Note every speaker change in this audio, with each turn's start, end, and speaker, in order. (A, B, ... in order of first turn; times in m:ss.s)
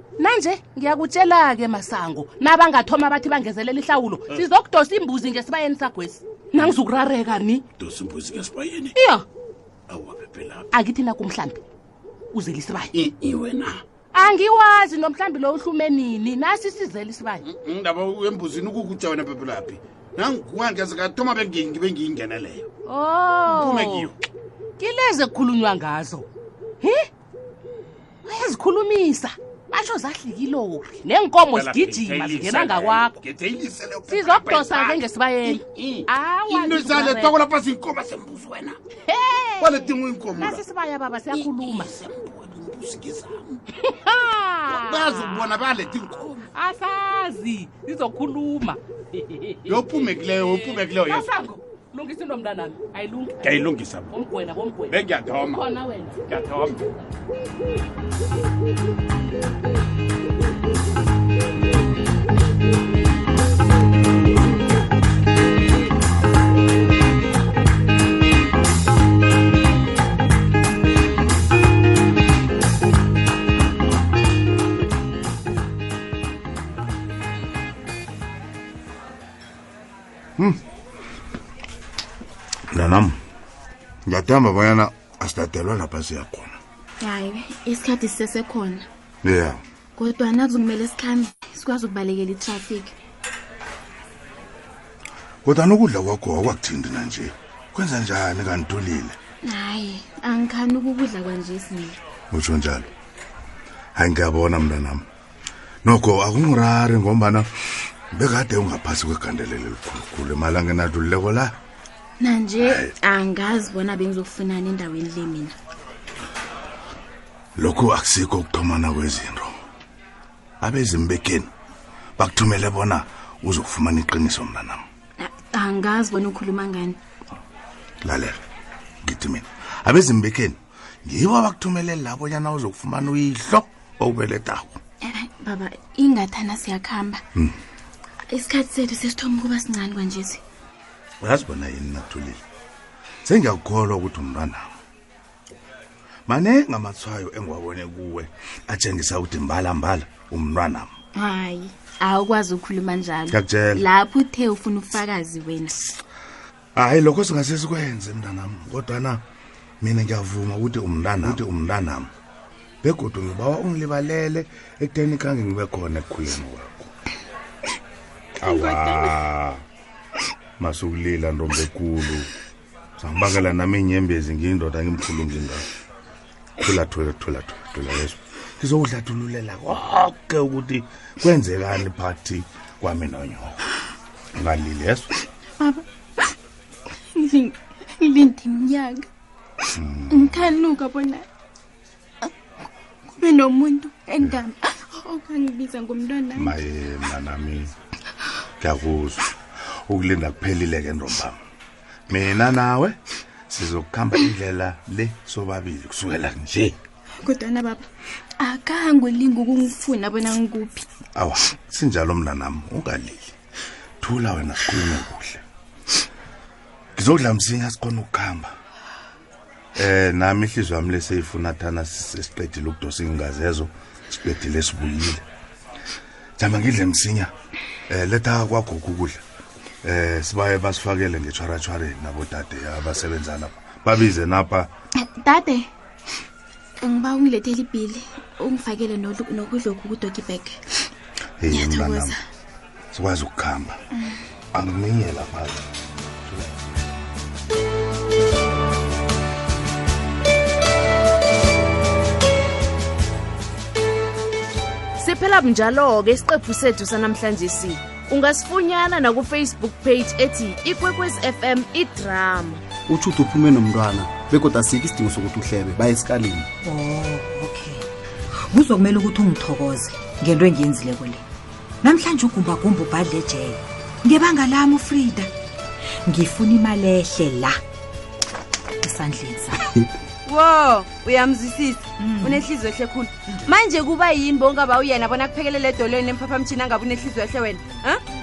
0:00.2-0:07.6 A
0:07.8-0:08.9 B
0:08.9-0:09.2 A
0:09.9-0:10.6 B
0:10.7-0:11.6 A
0:12.3-0:12.9 A
0:12.9-0:13.8 B
0:14.1-0:17.5 A
0:17.4-0:22.6 B
0:22.9-0:24.1 A
0:23.4-0:24.2 B
0:24.8-0:26.3 A
0:26.8-0:27.1 A
0:28.2-0:33.2 A
0:31.4-0:38.8 B
0:34.1-0:37.4 A
0:39.1-0:42.0 A
0:39.6-0:40.6 B
0:41.3-0:43.6 B
0:43.8-0:56.4 A
0:44.7-0:46.4 B
0:49.7-0:51.3 B
0:53.4-0:54.1 B
0:54.9-0:55.6 B
0:56.3-0:56.8 B
1:22.7-1:23.2 C
1:24.1-1:26.6 C
1:27.0-1:28.9 D
1:29.2-1:29.6 C
1:30.0-1:32.9 D
1:35.4-1:39.2 C
1:39.4-1:42.0 D
1:42.3-1:42.9 C
1:43.9-1:45.0 C
1:45.8-1:47.5 C
1:48.1-1:51.5 C
1:52.2-1:55.5 D
1:52.6-1:52.9 C
1:57.6-1:59.5 C
2:00.6-2:01.5 C
2:02.2-2:04.8 C
2:05.2-2:07.0 D
2:08.0-2:08.4 C
2:09.0-2:14.8 C
2:15.0-2:17.2 D
2:18.3-2:20.4 D
2:21.2-2:22.4 C
2:23.2-2:24.7 C
2:26.3-2:30.9 C
2:31.2-2:35.8 D
2:33.3-2:33.8 C
2:36.8-2:39.2 C
2:39.8-2:42.1 C
2:42.8-2:46.9 C
2:48.4-2:49.6 C
2:50.6-2:52.3 C
2:53.0-2:55.6 C
2:56.6-3:03.6 C
3:04.3-3:05.1 C
3:05.6-3:06.2 D
3:07.1-3:09.1 D
3:09.7-3:10.5 C
3:10.1-3:11.2 D
3:13.1-3:16.6 D
3:16.4-3:17.7 C
3:18.6-3:19.3 C
3:19.9-3:21.4 C
3:22.1-3:23.0 C
3:23.5-3:26.8 C
3:27.2-3:27.8 D
3:28.4-3:30.8 D
3:31.2-3:33.3 C
3:34.0-3:35.4 C
3:37.0-3:38.5 C
3:39.8-3:45.2 C
3:46.4-3:47.3 C
3:47.9-3:49.2 C
3:49.8-3:54.7 C
3:55.0-3:55.6 D
3:56.8-4:00.6 D
4:01.4-4:02.1 C
4:01.5-4:02.2 D
4:02.9-4:03.8 C
4:04.5-4:05.6 C
4:06.2-4:06.6 C
4:15.0-4:22.6 E
4:22.9-4:26.5 F
4:26.6-4:27.8 G
4:28.5-4:31.2 G
4:31.8-4:35.3 G
4:36.1-4:37.6 G
4:38.8-4:39.6 G
4:40.2-4:48.0 H
4:42.0-4:42.5 G